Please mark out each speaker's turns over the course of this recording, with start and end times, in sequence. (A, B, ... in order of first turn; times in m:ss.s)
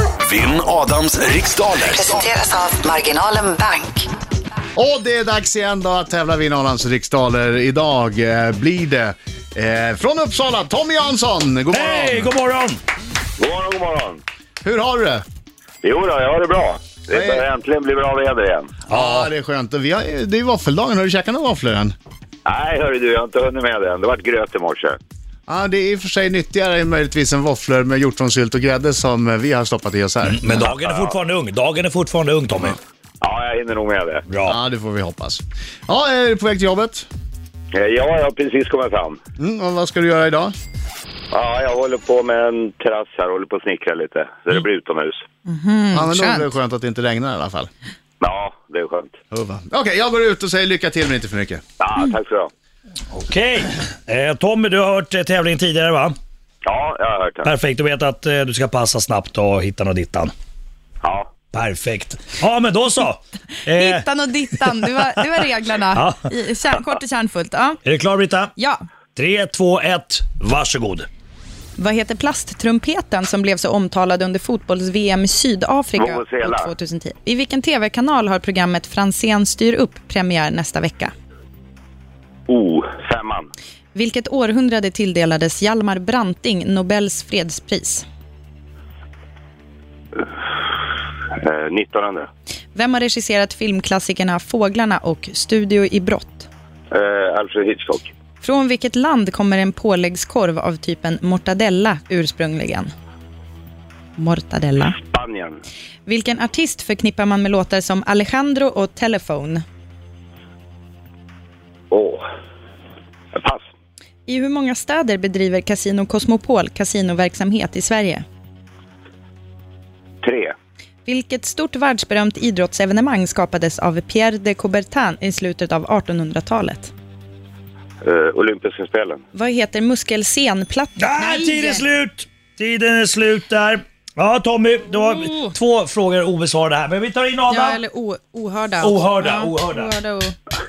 0:00.2-0:02.3 A
0:01.9-0:04.1 B
0:04.8-0:12.3 C
0:11.7-0:12.8 D
0:13.4-0:14.2 E
0:14.6-0:15.2 C
0:15.8-0:18.8 E
0:17.1-0:17.5 C
0:18.9-0:19.3 D
0:18.9-0:21.9 C
0:22.5-0:25.0 E
0:25.5-0:30.4 C
0:30.2-0:32.8 D
0:30.7-0:31.2 E
0:33.2-0:34.2 E
0:34.3-0:34.6 D
0:34.5-0:37.1 C
0:37.7-0:39.2 E
0:39.4-0:40.5 C
0:41.3-0:45.2 E
0:45.5-0:46.5 F
0:45.9-0:47.7 C
0:48.2-0:49.2 E
0:49.3-0:51.6 C
0:51.8-0:52.5 E
0:53.1-0:56.2 D
0:56.7-0:57.5 E
0:57.4-1:00.3 D
1:01.0-1:01.3 E
1:01.5-1:04.0 D
1:03.7-1:07.8 F
1:07.8-1:08.5 D
1:08.6-1:08.8 F
1:09.2-1:11.1 D
1:11.8-1:21.1 F
1:16.0-1:16.7 E
1:22.5-1:23.5 E
1:23.9-1:28.1 F
1:31.4-1:32.3 E
1:32.7-1:36.5 F
1:36.9-1:38.1 E
1:38.4-1:42.9 F
1:44.2-1:45.0 F
1:45.1-1:45.6 E
1:46.1-1:49.6 F
1:51.9-1:52.2 E
1:53.3-1:53.7 E
1:54.3-1:58.2 F
2:00.2-2:00.5 E
2:01.1-2:06.9 F
2:08.0-2:09.2 E
2:09.3-2:11.9 F
2:11.0-2:17.8 D
2:15.0-2:15.5 F
2:17.5-2:20.4 F
2:18.8-2:19.9 D